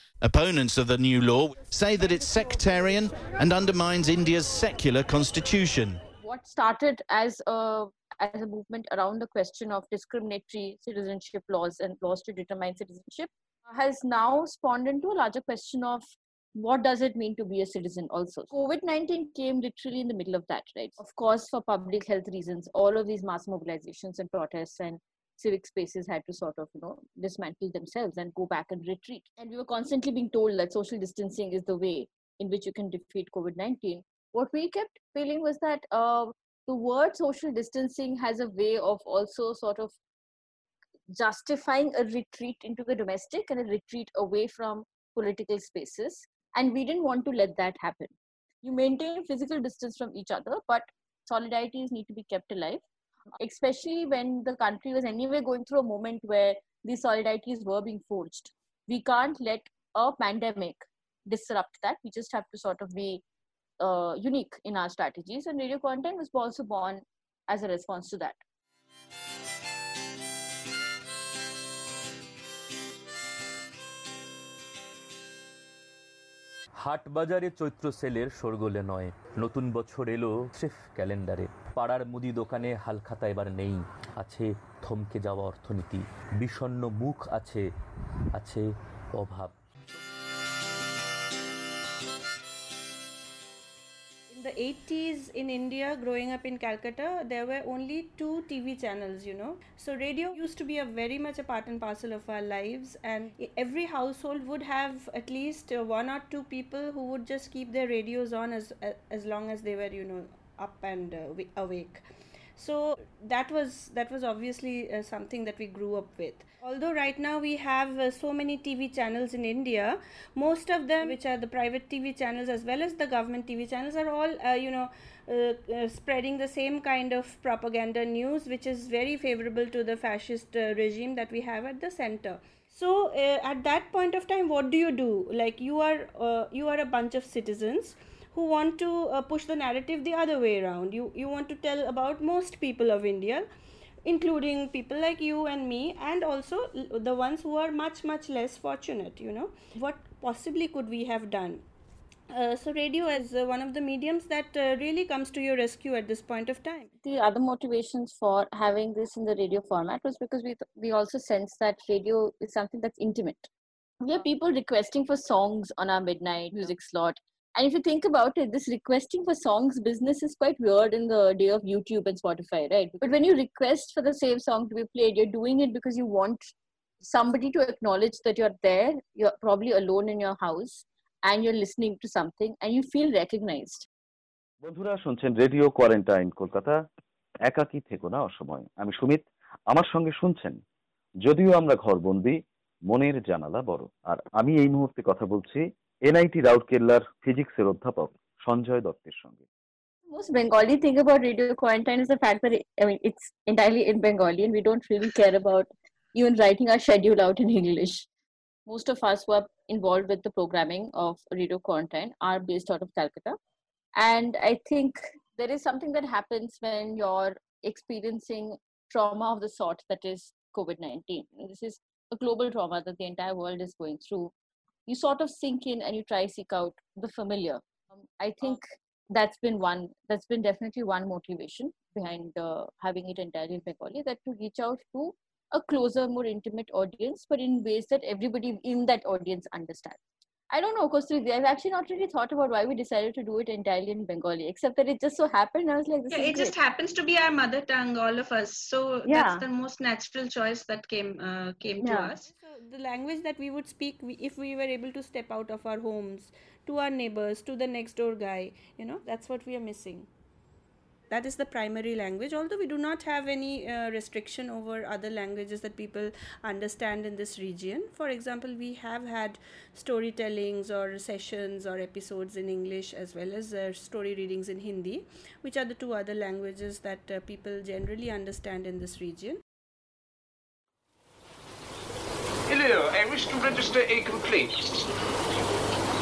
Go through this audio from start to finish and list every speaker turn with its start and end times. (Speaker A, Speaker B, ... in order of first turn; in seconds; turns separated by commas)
Speaker A: 0.2-6.0, Speaker B: 6.2-39.9, Speaker B: 41.2-52.8, Speaker B: 53.4-63.2, Speaker B: 63.8-68.4, Speaker C: 76.8-87.7, Speaker C: 88.3-89.5, Speaker D: 94.3-112.0, Speaker D: 112.6-143.5, Speaker D: 144.1-151.7, Speaker D: 152.3-156.9, Speaker B: 157.0-163.5, Speaker B: 164.0-183.9, Speaker E: 184.6-186.8, Speaker E: 187.5-190.6, Speaker E: 191.2-192.4, Speaker E: 192.9-199.4, Speaker B: 200.1-208.1, Speaker B: 208.7-213.4, Speaker B: 214.0-224.3, Speaker B: 224.9-240.0, Speaker B: 240.5-246.6, Speaker F: 246.1-252.3, Speaker B: 249.1-249.4, Speaker B: 251.8-252.1, Speaker D: 252.2-260.1, Speaker D: 261.1-279.4, Speaker G: 282.5-284.7